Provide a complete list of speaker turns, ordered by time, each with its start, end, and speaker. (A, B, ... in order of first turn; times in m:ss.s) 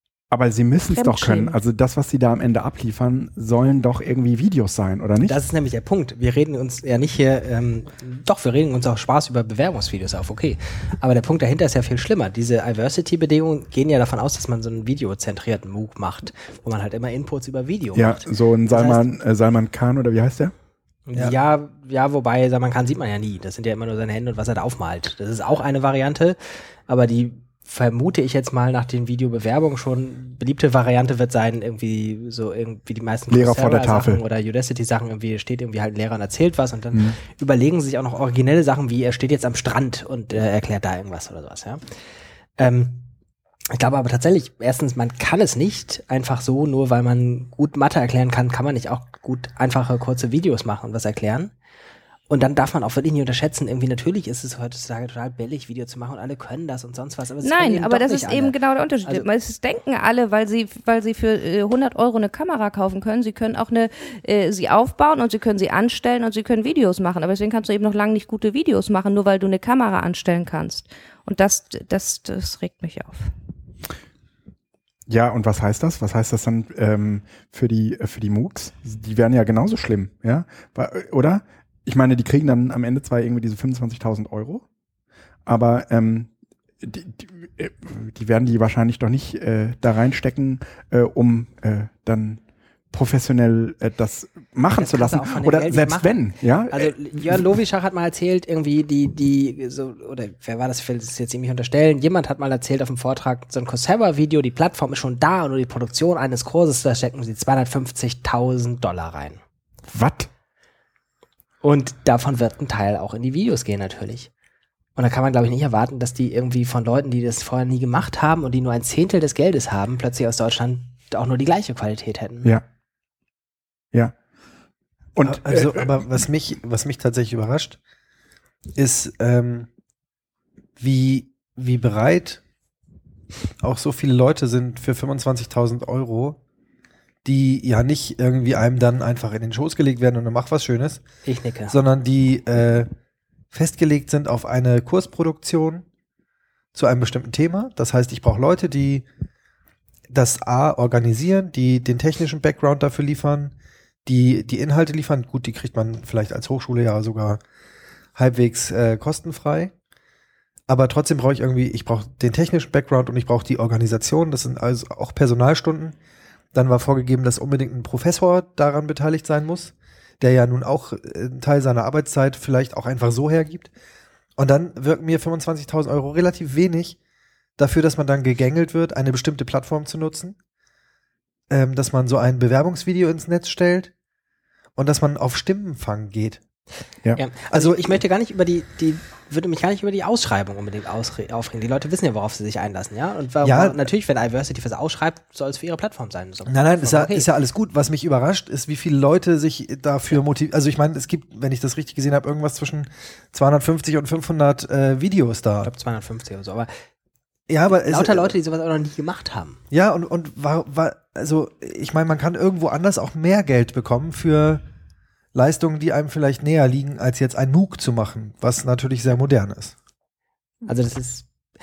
0:00.3-0:05.4 A
0:00.8-0:01.6 B
0:05.2-0:19.0 C
0:17.9-0:20.5 A
0:21.1-0:41.8 C
0:33.3-0:34.2 A
0:42.6-0:43.1 C
0:43.7-0:51.5 C
0:52.3-0:59.3 C
0:57.4-1:13.3 B
1:15.1-1:24.6 A
1:25.5-1:26.3 A
1:26.8-1:37.0 A
1:34.8-1:49.4 C
1:49.9-1:50.3 A
1:51.6-1:54.3 C
1:55.0-2:02.5 C
2:05.2-2:05.9 A
2:05.2-2:07.8 D
2:08.8-2:09.7 D
2:10.8-2:12.4 D
2:13.6-2:16.4 D
2:17.2-2:21.0 D
2:21.3-2:21.8 C
2:21.7-2:22.9 D
2:23.5-2:25.8 D
2:26.7-2:29.1 D
2:30.1-2:33.5 D
2:34.0-2:37.4 D
2:38.2-2:39.7 D
2:40.7-2:46.0 D
2:46.5-2:53.7 D
2:54.4-2:57.0 D
2:57.6-3:00.4 D
3:01.5-3:03.9 D
3:04.8-3:06.4 D
3:07.2-3:17.3 C
3:07.5-3:08.0 D
3:13.4-3:13.9 D
3:16.5-3:25.7 D
3:25.6-3:26.7 C
3:27.5-3:28.3 D
3:27.7-3:29.6 C
3:29.7-3:34.6 D
3:35.3-3:39.8 D
3:40.6-3:41.3 C